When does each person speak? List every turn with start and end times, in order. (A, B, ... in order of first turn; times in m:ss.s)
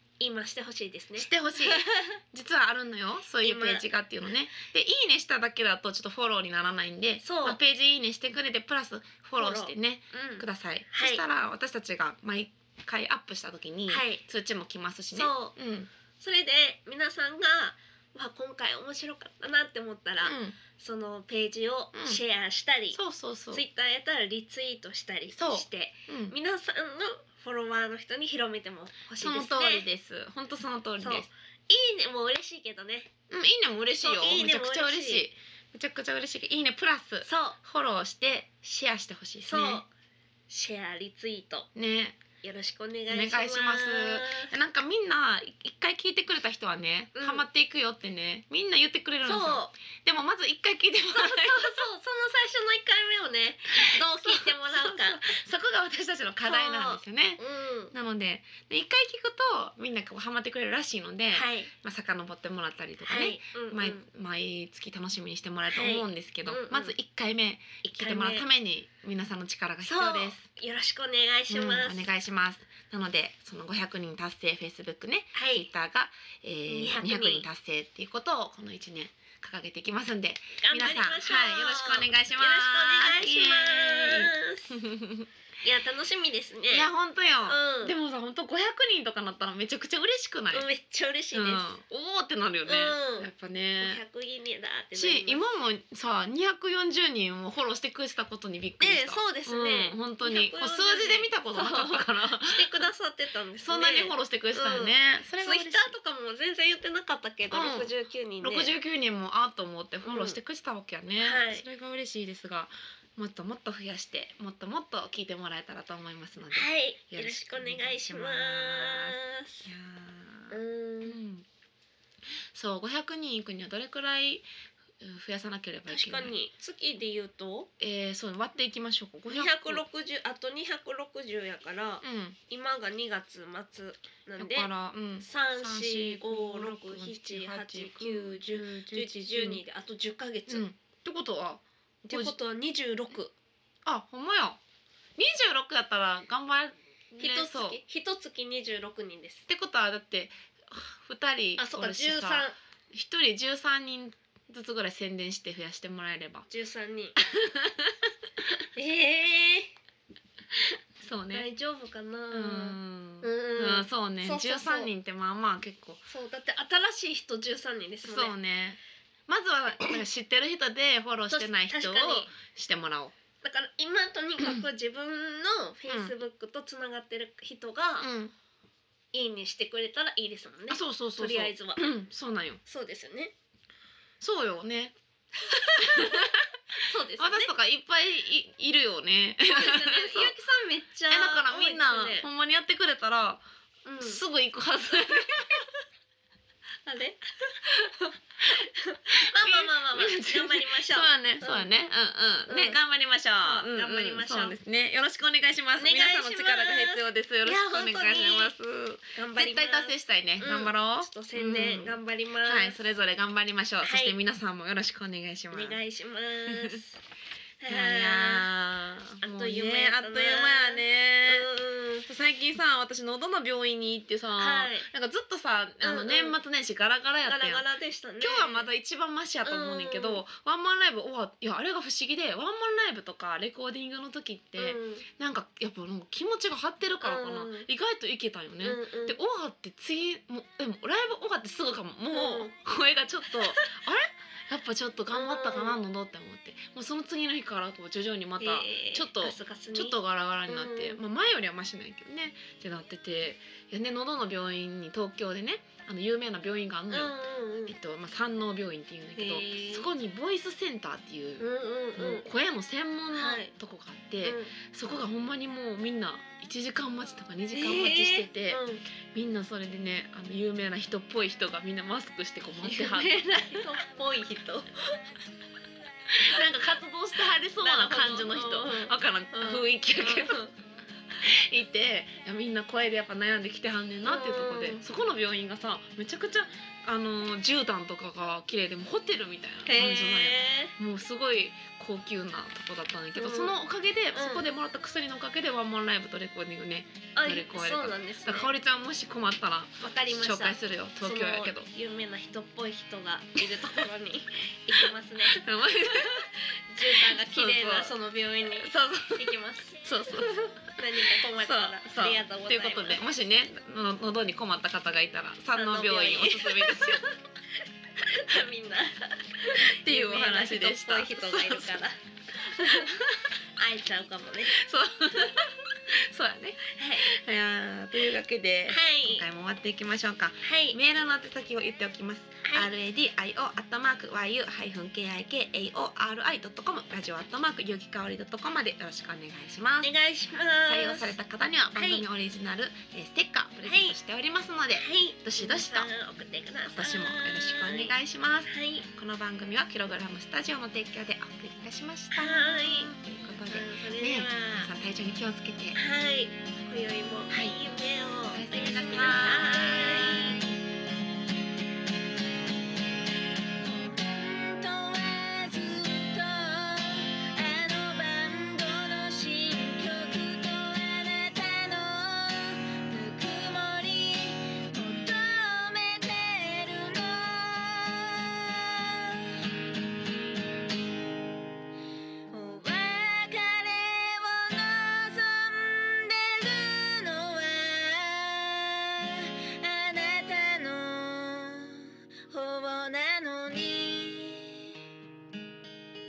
0:00.2-0:02.2 A
0:01.2-0:15.9 B
0:03.4-0:03.8 A
0:07.2-0:07.6 A
0:09.4-0:11.2 A
0:13.9-0:14.2 A
0:15.1-0:15.5 A
0:16.2-0:23.0 A
0:20.2-0:20.6 B
0:21.9-0:22.2 B
0:22.9-0:23.6 B
0:23.5-0:29.8 A
0:25.3-0:26.3 B
0:29.2-0:31.3 B
0:31.0-0:33.1 A
0:33.3-0:39.8 B
0:34.0-0:35.3 A
0:37.2-0:37.6 A
0:39.5-0:39.9 A
0:40.5-0:41.7 A
0:41.7-0:42.2 B
0:42.4-0:44.5 A
0:43.1-0:51.8 B
0:47.1-0:47.4 A
0:49.2-0:49.7 A
0:51.1-0:55.2 A
0:54.0-0:57.4 B
0:56.4-0:57.9 A
0:57.9-1:10.4 B
1:01.3-1:01.7 A
1:03.0-1:04.0 A
1:05.7-1:06.9 A
1:07.8-1:08.4 A
1:09.8-1:12.1 A
1:11.5-1:25.3 B
1:15.3-1:15.7 A
1:16.7-1:17.4 A
1:20.6-1:24.8 A
1:25.6-1:26.9 A
1:26.7-1:30.7 B
1:27.4-1:27.9 A
1:30.5-1:31.7 A
1:31.3-1:34.0 B
1:32.6-1:35.4 A
1:34.9-1:42.8 B
1:38.8-1:48.7 A
1:43.6-1:45.9 B
1:47.5-2:01.4 B
1:50.0-1:50.4 A
1:51.2-1:51.6 A
1:56.5-1:59.6 A
2:00.5-2:01.2 A
2:02.5-2:04.5 B
2:05.0-2:06.3 B
2:05.9-2:07.7 A
2:07.8-2:09.8 B
2:09.3-2:20.6 A
2:12.0-2:12.4 B
2:14.4-2:19.6 B
2:20.5-2:22.4 B
2:22.1-2:23.3 A
2:23.8-2:24.6 B
2:25.2-2:27.8 B
2:27.2-2:29.4 A
2:29.5-2:36.5 B
2:31.6-2:32.6 A
2:36.5-2:37.4 A
2:37.2-2:38.0 B
2:38.8-2:39.7 A
2:40.6-2:41.5 B
2:41.3-2:44.9 A
2:42.3-2:46.0 B
2:46.1-2:48.4 A
2:48.0-2:53.1 B
2:51.3-2:52.3 A
2:53.4-2:58.1 A
2:55.9-2:56.1 B
2:58.0-2:58.3 B
2:59.1-3:01.9 A
3:00.7-3:02.6 B
3:02.6-3:03.3 A
3:04.2-3:05.0 B
3:05.4-3:07.5 A
3:05.5-3:06.5 B
3:07.2-3:10.4 B
3:09.5-3:12.2 A
3:11.1-3:13.4 B
3:13.8-3:14.2 A
3:14.0-3:15.6 B
3:16.8-3:21.7 A
3:19.3-3:35.8 B
3:22.5-3:22.8 A
3:23.4-3:24.6 A
3:25.8-3:28.6 A
3:29.1-3:32.8 A
3:33.8-3:34.2 A
3:35.5-3:37.0 A
3:36.5-3:36.8 B
3:37.6-3:38.5 A
3:37.7-3:41.4 B
3:39.2-3:42.1 A
3:42.1-3:47.6 B
3:44.4-3:44.9 A
3:45.8-3:46.4 A
3:47.2-3:48.7 A
3:48.2-4:17.1 B
3:49.4-3:50.2 A
3:54.6-3:55.0 A
3:57.0-3:57.7 A
3:58.6-3:59.2 A
4:02.1-4:02.5 A
4:03.3-4:03.8 A
4:05.1-4:05.8 A
4:08.4-4:11.0 A
4:16.9-4:17.8 A
4:17.7-4:28.6 B
4:19.2-4:19.9 A
4:21.4-4:22.2 A
4:23.1-4:23.5 A
4:24.2-4:24.5 A
4:27.5-4:28.8 A
4:29.1-4:33.3 B
4:32.6-4:35.0 A
4:36.1-4:40.4 B
4:37.6-4:40.5 A
4:41.2-5:01.7 B
4:44.0-4:44.8 A
4:49.6-4:50.7 A
4:53.2-4:53.5 A
4:54.1-4:54.4 A
4:57.1-4:58.5 A
4:59.8-5:13.1 A
5:04.8-5:07.9 B
5:08.6-5:09.3 B
5:09.8-5:10.6 B
5:11.4-5:17.0 B
5:15.5-5:17.0 A
5:18.0-5:23.0 A
5:19.5-5:21.8 B
5:22.6-5:23.3 B
5:23.6-5:24.6 A
5:24.5-5:39.9 B
5:26.7-5:27.1 A
5:28.7-5:29.2 A
5:30.4-5:30.8 A
5:32.4-5:32.7 A
5:39.8-5:41.1 A
5:40.6-5:45.9 B
5:41.7-5:42.0 A
5:43.6-5:44.0 A
5:44.7-5:48.8 A
5:46.7-5:55.8 B
5:52.1-5:54.7 A
5:55.7-6:00.5 A
5:57.3-5:57.6 B
5:58.3-6:00.5 B
6:03.6-6:19.3 A
6:22.3-6:34.8 A